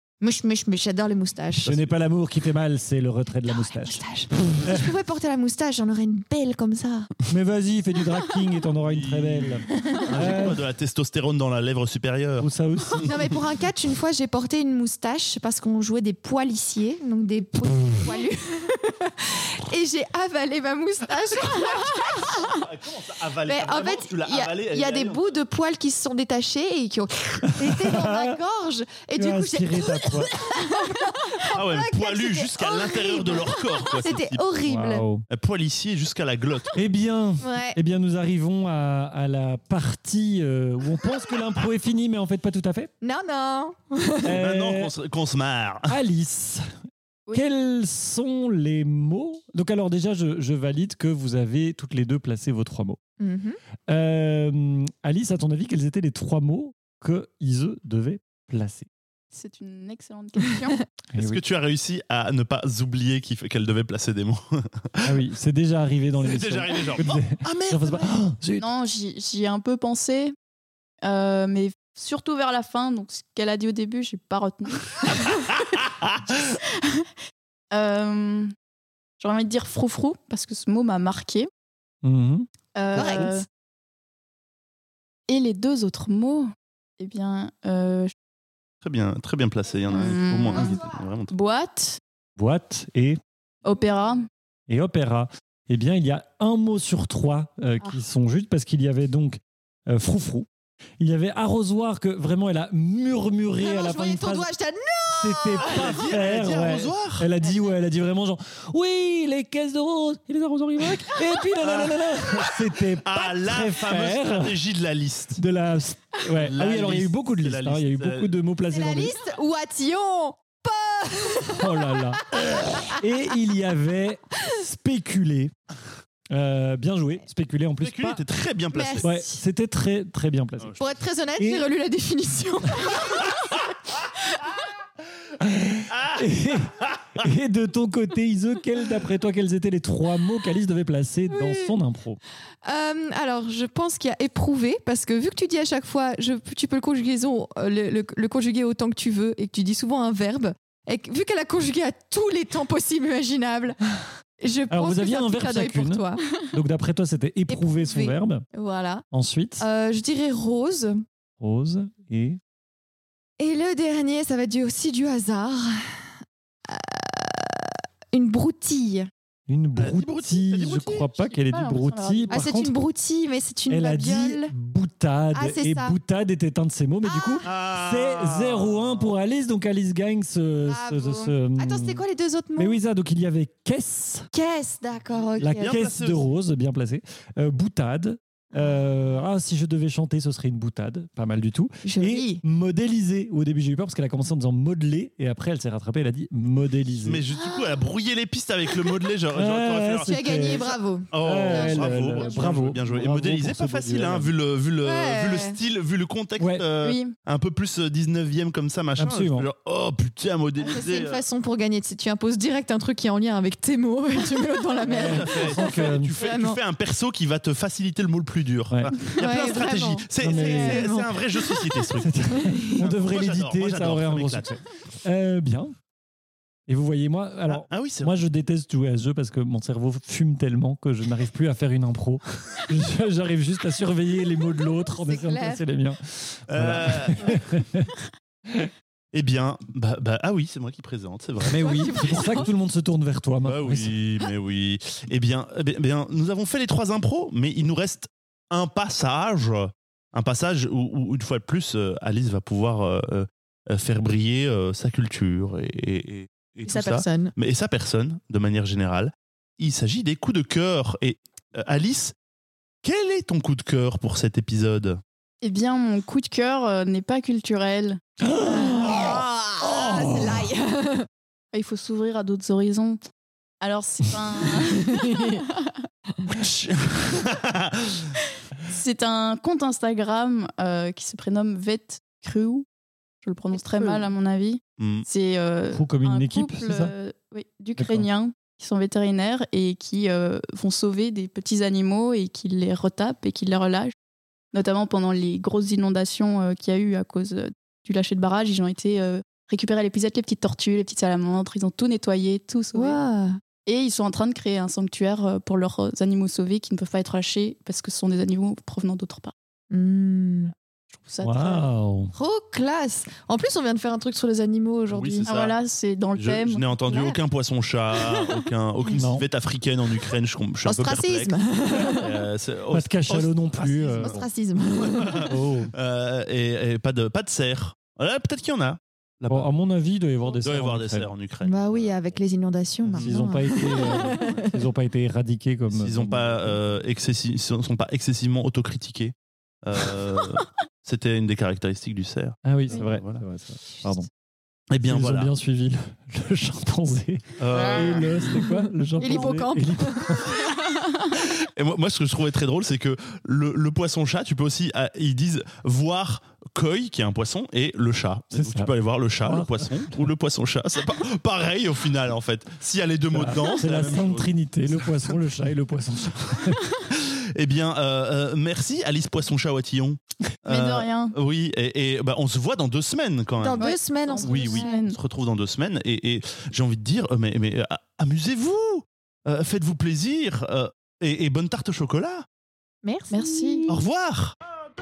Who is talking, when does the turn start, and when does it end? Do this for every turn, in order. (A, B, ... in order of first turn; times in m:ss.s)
0:00.2-0:01.8 A
0:01.7-0:04.9 B
0:03.5-0:07.1 A
0:07.3-0:10.6 B
0:08.8-0:13.1 C
0:12.4-0:13.2 B
0:13.0-0:22.5 A
0:21.4-0:25.2 C
0:23.5-0:35.1 A
0:27.5-0:28.4 B
0:29.2-0:30.3 B
0:31.5-0:34.4 C
0:34.7-0:35.3 B
0:35.3-0:36.8 C
0:36.8-0:42.9 B
0:37.4-0:37.8 A
0:43.0-0:44.4 A
0:44.2-0:44.9 B
0:44.3-0:46.0 C
0:45.9-0:46.7 B
0:47.3-0:53.0 B
0:53.2-0:53.6 A
0:53.9-0:58.9 B
0:59.3-1:00.8 D
1:01.1-1:01.4 B
1:01.2-1:05.2 C
1:05.0-1:08.7 B
1:06.2-1:08.3 C
1:08.6-1:10.4 D
1:11.0-1:15.3 D
1:15.3-1:16.6 C
1:16.8-1:17.1 D
1:17.7-1:18.5 D
1:19.2-1:21.5 D
1:22.0-1:22.5 B
1:22.8-1:23.5 D
1:22.9-1:23.4 A
1:23.0-1:23.3 B
1:25.3-1:28.1 D
1:28.8-1:31.3 C
1:29.9-1:30.8 D
1:31.3-1:32.0 D
1:32.4-1:33.2 B
1:33.6-1:34.2 D
1:34.7-1:40.5 B
1:41.0-1:44.5 B
1:43.6-1:46.0 A
1:45.2-1:54.6 B
1:45.6-1:47.3 C
1:51.6-1:55.4 C
1:55.4-1:59.2 B
1:56.4-1:58.3 C
1:58.7-2:03.0 A
2:01.6-2:05.5 B
2:06.3-2:08.2 B
2:07.8-2:09.1 C
2:08.7-2:09.4 A
2:09.0-2:10.8 B
2:10.8-2:13.4 A
2:11.4-2:11.7 B
2:15.4-2:22.2 B
2:15.9-2:16.3 C
2:21.3-2:21.7 A
2:22.6-2:33.8 A
2:34.4-2:36.3 A
2:34.7-2:38.4 B
2:37.5-2:39.0 A
2:39.1-2:39.6 B
2:39.6-2:41.0 A
2:41.4-2:42.4 B
2:43.4-2:46.1 A
2:46.7-2:49.1 A
2:49.5-2:52.7 B
2:49.8-2:51.1 C
2:51.2-2:52.4 D
2:52.3-2:54.5 A
2:53.7-3:02.0 B
2:55.3-2:56.0 A
2:57.0-2:57.5 A
2:57.4-2:59.1 C
3:00.6-3:02.8 A
3:02.6-3:04.3 B
3:04.3-3:05.8 A
3:05.4-3:06.2 C
3:05.4-3:17.2 B
3:11.8-3:12.4 A
3:17.1-3:20.5 C
3:19.3-3:24.3 B
3:20.1-3:22.5 A
3:21.1-3:31.2 C
3:24.8-3:25.6 A
3:26.4-3:26.7 B
3:26.8-3:27.1 D
3:29.0-3:29.5 B
3:30.6-3:36.6 A
3:34.8-3:36.1 B
3:35.0-3:44.5 C
3:38.7-3:39.0 B
3:39.1-3:42.9 A
3:40.2-3:41.0 B
3:42.0-3:45.7 B
3:46.7-3:57.9 B
3:47.5-3:48.1 C
3:55.0-3:55.6 A
3:56.5-3:57.4 C
3:59.1-4:01.6 C
4:01.5-4:03.9 B
4:01.6-4:02.5 A
4:03.4-4:22.1 C
4:16.6-4:17.3 A
4:22.8-4:25.0 C
4:25.4-4:28.0 D
4:28.2-4:29.1 B
4:28.4-4:31.1 A
4:29.7-4:30.5 B
4:31.5-4:33.0 D
4:33.6-4:35.7 D
4:34.8-4:35.4 A
4:36.3-4:38.1 C
4:38.7-4:42.7 D
4:43.2-4:53.9 D
4:43.5-4:44.1 A
4:44.8-4:45.1 C
4:45.7-4:46.9 B
4:47.8-4:48.1 B
4:54.5-5:03.0 D
5:02.7-5:03.4 A
5:03.7-5:09.3 D
5:09.7-5:10.5 A
5:10.9-5:11.7 D
5:11.2-5:12.1 B
5:12.1-5:15.3 A
5:14.9-5:15.6 C
5:15.2-5:16.6 D
5:16.2-5:29.5 C
5:16.8-5:17.2 A
5:19.0-5:19.2 B
5:20.6-5:22.1 A
5:22.7-5:24.2 B
5:24.0-5:25.2 A
5:25.3-5:25.7 B
5:29.3-5:31.1 B
5:30.4-5:31.9 C
5:31.4-5:34.6 A
5:32.8-5:33.2 C
5:33.0-5:36.8 B
5:35.7-5:43.2 C
5:42.4-5:44.1 B
5:44.7-5:45.3 C
5:44.8-5:50.4 B
5:47.4-5:48.3 C
5:48.4-5:50.4 A
5:51.2-6:05.2 C
5:58.3-5:58.7 B
5:59.2-6:00.1 B
6:03.1-6:06.7 B
6:06.9-6:13.7 C
6:10.5-6:11.2 D
6:13.4-6:14.8 A
6:13.6-6:15.0 D
6:14.2-6:22.3 C
6:22.8-6:23.8 A
6:23.1-6:23.7 D
6:23.7-6:24.4 C